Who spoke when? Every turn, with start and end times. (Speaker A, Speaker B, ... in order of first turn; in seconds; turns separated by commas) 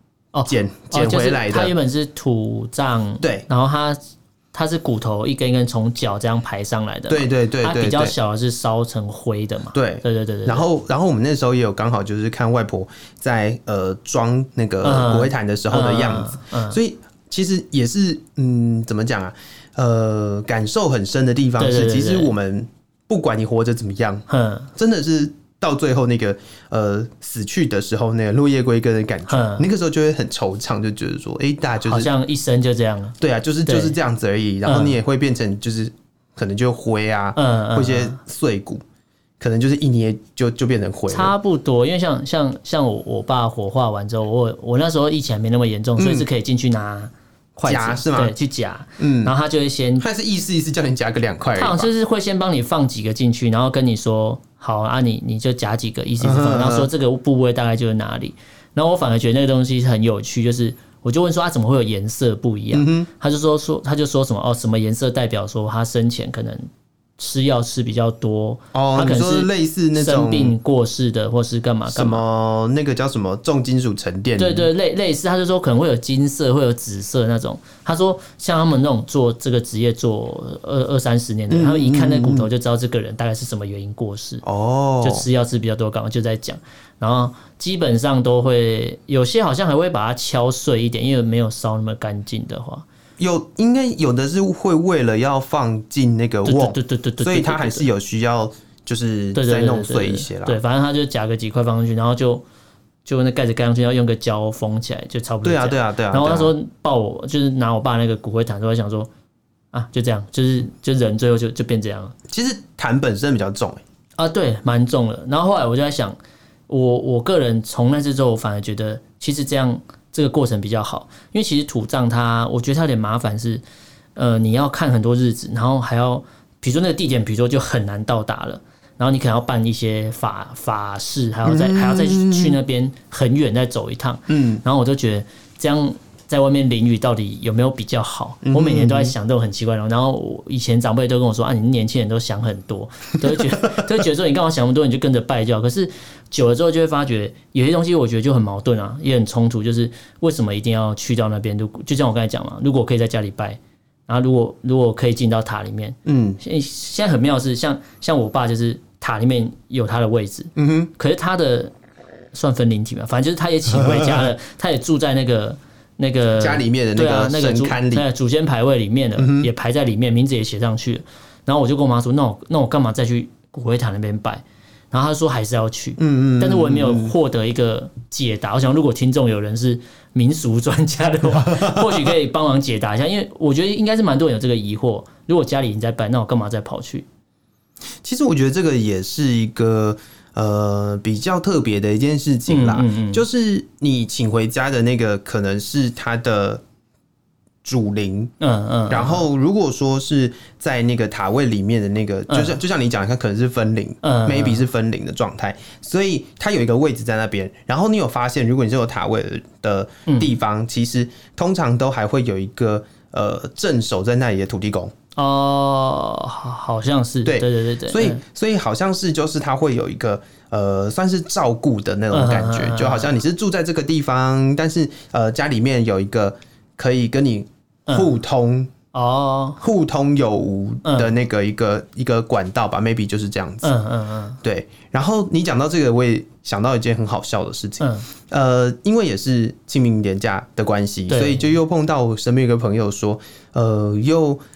Speaker A: 0.3-4.0, Speaker B: 0.4-1.7, Speaker B: 3.2-3.5, Speaker A: 4.5-10.6, Speaker B: 7.1-8.1, Speaker B: 9.7-32.1, Speaker A: 14.8-16.8, Speaker A: 21.6-22.3, Speaker A: 24.3-24.7, Speaker A: 29.3-29.7, Speaker A: 31.8-34.0, Speaker B: 33.2-38.8, Speaker A: 34.6-35.0, Speaker A: 37.4-38.2, Speaker B: 39.4-41.3, Speaker A: 41.1-50.0, Speaker B: 46.0-46.3, Speaker B: 47.6-48.4, Speaker B: 49.0-49.3, Speaker B: 50.0-51.9, Speaker A: 51.5-72.2, Speaker B: 56.2-56.9, Speaker B: 62.7-63.1, Speaker B: 68.7-70.5, Speaker B: 71.9-74.7, Speaker A: 74.4-84.4, Speaker B: 81.5-82.5, Speaker B: 84.4-85.2, Speaker A: 85.0-92.8, Speaker B: 93.2-100.6, Speaker A: 96.5-97.9, Speaker A: 99.3-102.4, Speaker A: 103.0-109.1, Speaker B: 105.4-106.5, Speaker A: 109.7-112.2, Speaker B: 112.3-113.8, Speaker A: 114.2-116.2, Speaker A: 116.7-123.6, Speaker A: 124.2-161.7, Speaker B: 131.4-132.6, Speaker B: 134.3-134.6, Speaker B: 138.4-139.1, Speaker B: 156.0-156.4, Speaker B: 160.6-160.9, Speaker A: 162.3-187.1, Speaker B: 163.7-164.2, Speaker B: 166.4-168.1, Speaker B: 169.2-169.5, Speaker B: 176.0-177.1, Speaker B: 181.4-182.1, Speaker B: 188.0-196.6, Speaker A: 192.5-193.2, Speaker B: 197.6-198.3, Speaker A: 198.4-199.2, Speaker B: 198.9-214.9, Speaker A: 202.3-202.6, Speaker A: 204.0-204.6, Speaker A: 215.2-218.2, Speaker B: 217.2-228.7, Speaker A: 222.1-223.1, Speaker A: 228.9-229.6, Speaker B: 229.6-233.7, Speaker A: 230.8-231.1, Speaker A: 233.6-234.4, Speaker B: 234.4-244.4, Speaker A: 237.8-238.1, Speaker A: 241.1-241.5